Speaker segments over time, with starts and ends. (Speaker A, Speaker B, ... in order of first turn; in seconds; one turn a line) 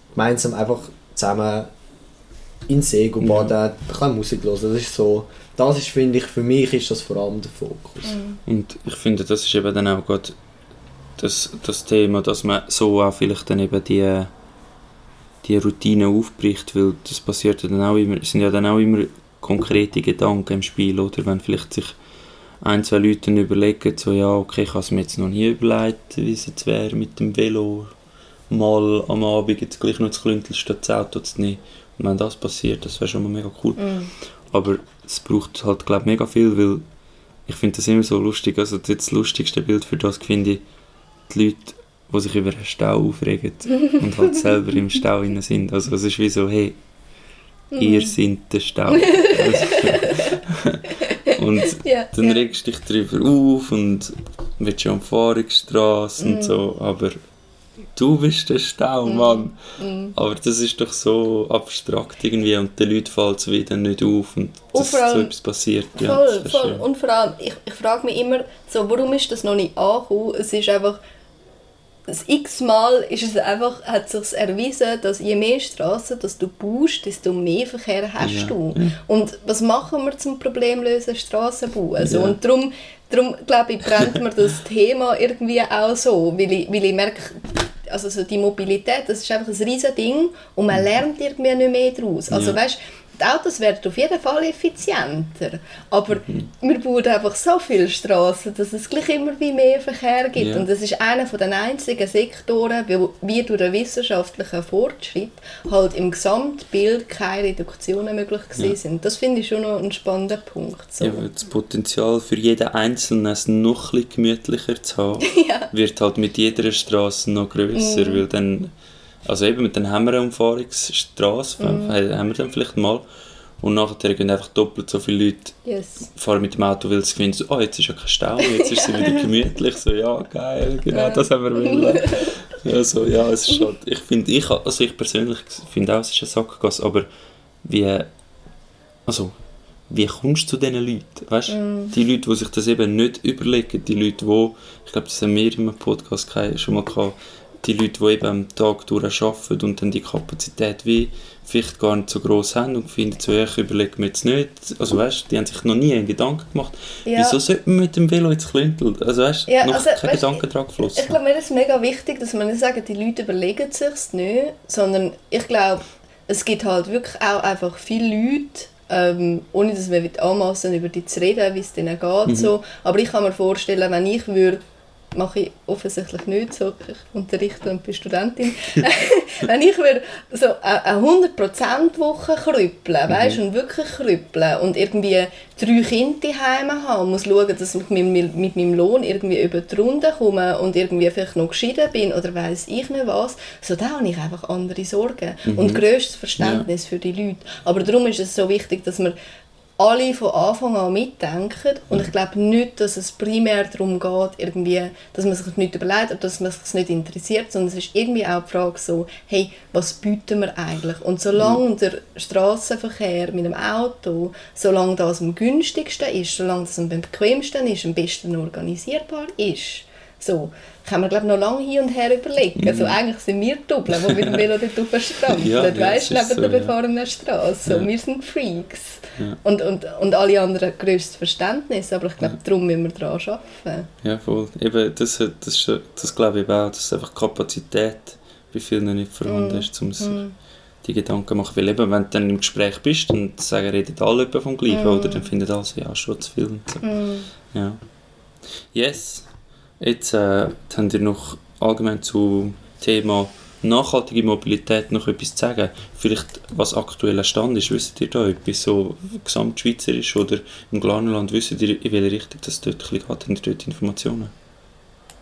Speaker A: 0.1-1.7
Speaker A: 2.7-8.2
Speaker B: 3.2-3.5
Speaker C: 8.1-8.4
Speaker B: 8.5-10.4
Speaker B: 11.2-14.3
Speaker B: 15.4-22.0
Speaker B: 22.6-27.9
Speaker B: 28.5-33.9
Speaker C: 33.8-34.1
Speaker B: 34.5-36.8
Speaker B: 37.5-40.6
Speaker B: 41.3-46.8
Speaker C: 43.8-44.4
Speaker C: 47.7-48.1
Speaker B: 47.8-57.2
Speaker C: 48.9-52.5
Speaker C: 56.2-56.5
Speaker B: 58.0-59.6
Speaker C: 59.1-60.1
Speaker B: 60.1-66.8
Speaker C: 64.7-65.3
Speaker C: 66.0-71.0
Speaker C: 72.1-111.3
Speaker B: 78.2-79.0
Speaker B: 82.0-82.4
Speaker B: 92.3-92.6
Speaker B: 100.4-100.7
Speaker B: 111.0-118.7
Speaker C: 115.2-115.7
Speaker C: 117.8-118.2
Speaker B: 119.2-123.0
Speaker C: 121.6-121.9
Speaker B: 123.6-125.6
Speaker C: 125.7-126.1
Speaker B: 126.2-137.1
Speaker C: 128.5-129.2
Speaker C: 130.9-132.3
Speaker B: 137.6-138.1
Speaker B: 139.1-139.3
Speaker B: 139.9-161.2
Speaker C: 141.5-141.9
Speaker C: 157.1-157.4
Speaker C: 159.5-174.6
Speaker B: 172.3-172.5
Speaker C: 175.1-199.2
Speaker B: 183.1-183.4
Speaker B: 195.5-195.8
Speaker B: 196.4-196.7
Speaker C: 199.8-233.9
Speaker B: 211.4-211.6
Speaker B: 222.6-223.0
Speaker B: 223.9-224.4
Speaker B: 225.3-226.7
Speaker B: 234.0-240.2
Speaker C: 239.3-240.3
Speaker B: 240.8-246.9
Speaker C: 244.7-245.3
Speaker C: 246.8-247.3
Speaker B: 247.5-247.8
Speaker B: 248.7-249.3
Speaker B: 249.8-264.3